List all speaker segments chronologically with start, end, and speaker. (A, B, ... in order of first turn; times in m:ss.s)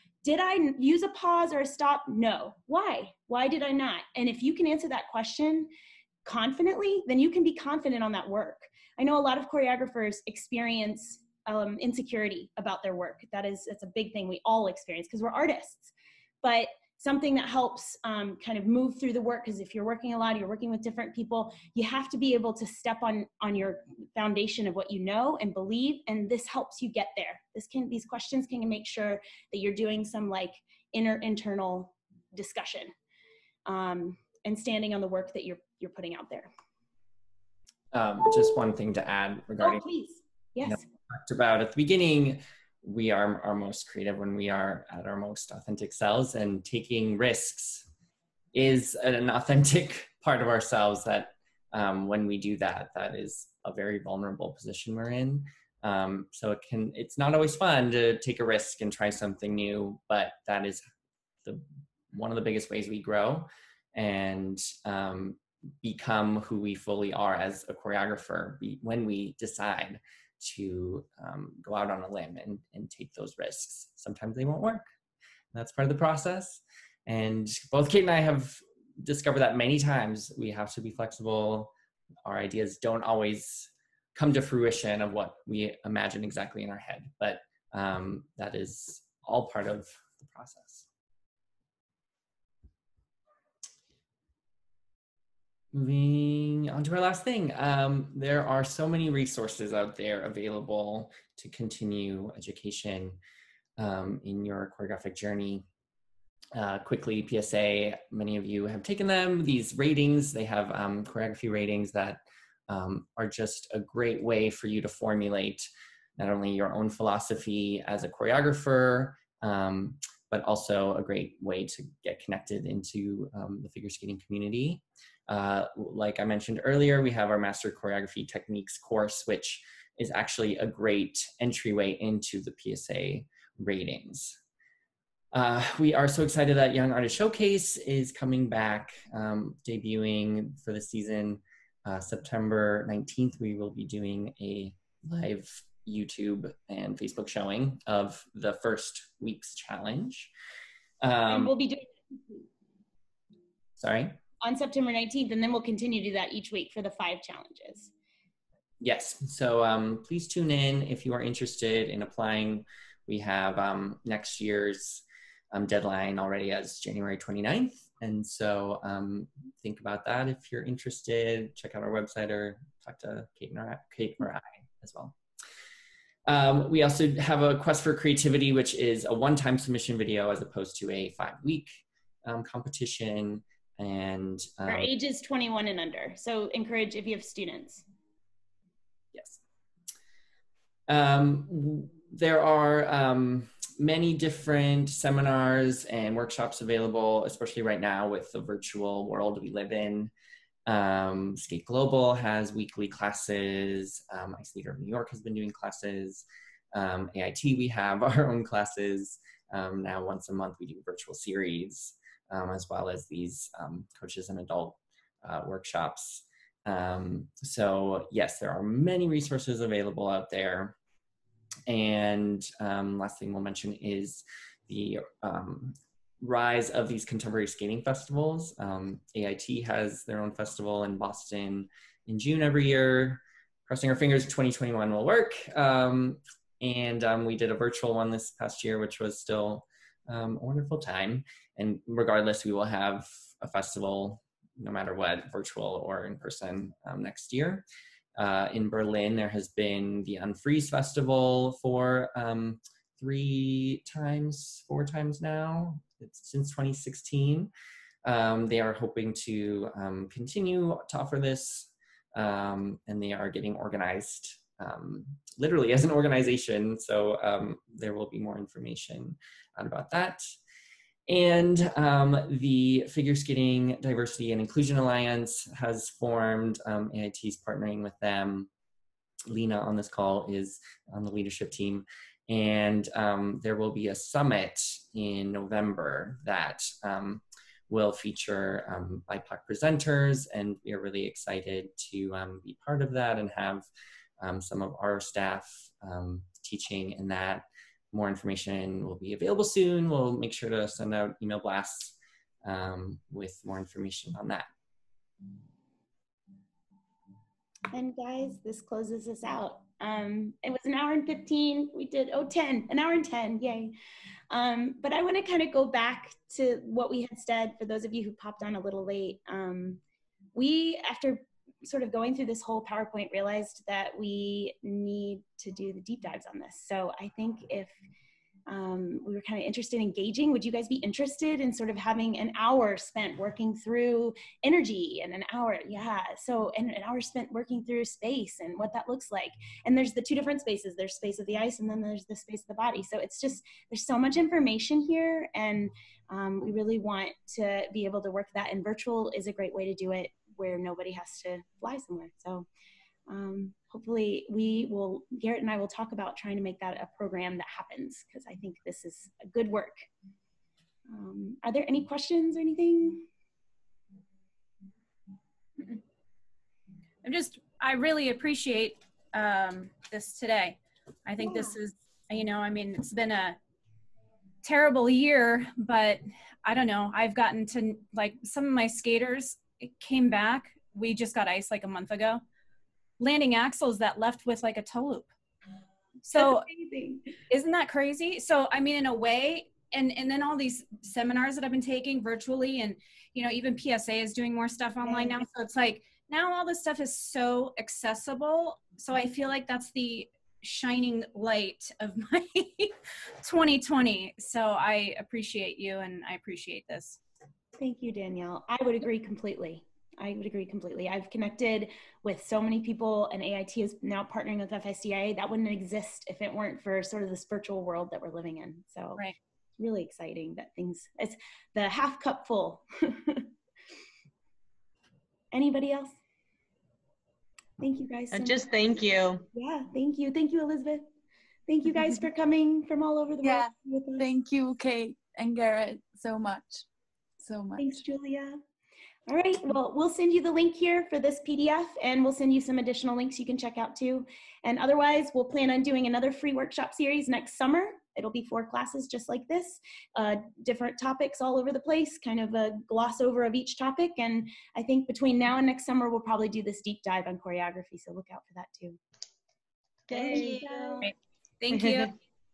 0:00.2-0:05.7 A
0:06.2-0:15.9 A
0:16.4-0:32.9 A
0:33.7-0:36.5 A
0:37.9-0:39.9 B
0:39.6-0:40.8 A
0:40.6-0:47.9 B
0:48.5-1:00.8 B
1:01.4-1:14.8 B
1:15.5-1:21.7 B
1:22.2-1:30.9 B
1:35.7-1:43.2 B
1:43.8-1:45.6 B
1:46.6-2:14.4 B
2:15.3-2:30.3 B
2:31.0-2:31.5 B
2:31.3-2:32.5 A
2:33.8-2:34.2 B
2:34.4-2:37.9 A
2:38.8-2:55.2 B
2:56.3-3:04.9 B
3:04.7-3:07.8 A
3:09.1-3:09.4 B
3:10.9-3:20.1 B
3:20.7-3:40.8 B
3:41.7-4:17.5 B
4:18.0-4:30.2 B
4:31.1-4:38.5 B
4:39.3-4:53.7 B
4:54.2-5:04.5 B
5:07.7-5:13.7 A
5:14.3-5:19.8 A
5:20.4-5:27.8 A
5:28.5-5:52.5 A
5:53.1-5:59.9 A
6:00.9-6:03.1 A
6:07.0-6:13.4 C
6:11.2-6:11.6 A
6:14.4-6:22.2 C
6:23.0-6:25.1 C
6:26.1-6:26.5 C
6:26.1-6:27.1 A
6:27.3-6:47.0 C
6:34.8-6:35.2 A
6:47.6-6:59.0 A
6:59.6-7:03.3 A
7:05.3-7:06.0 A
7:07.6-7:08.4 A
7:08.1-7:09.2 D
7:09.3-7:10.9 A
7:11.5-7:14.0 A
7:13.2-7:16.7 E
7:17.2-7:17.8 E
7:17.6-7:18.4 A
7:19.1-7:38.8 A
7:39.9-7:40.4 D
7:39.9-7:40.9 A
7:40.1-7:40.9 E
7:41.4-7:41.9 C
7:41.5-7:41.9 D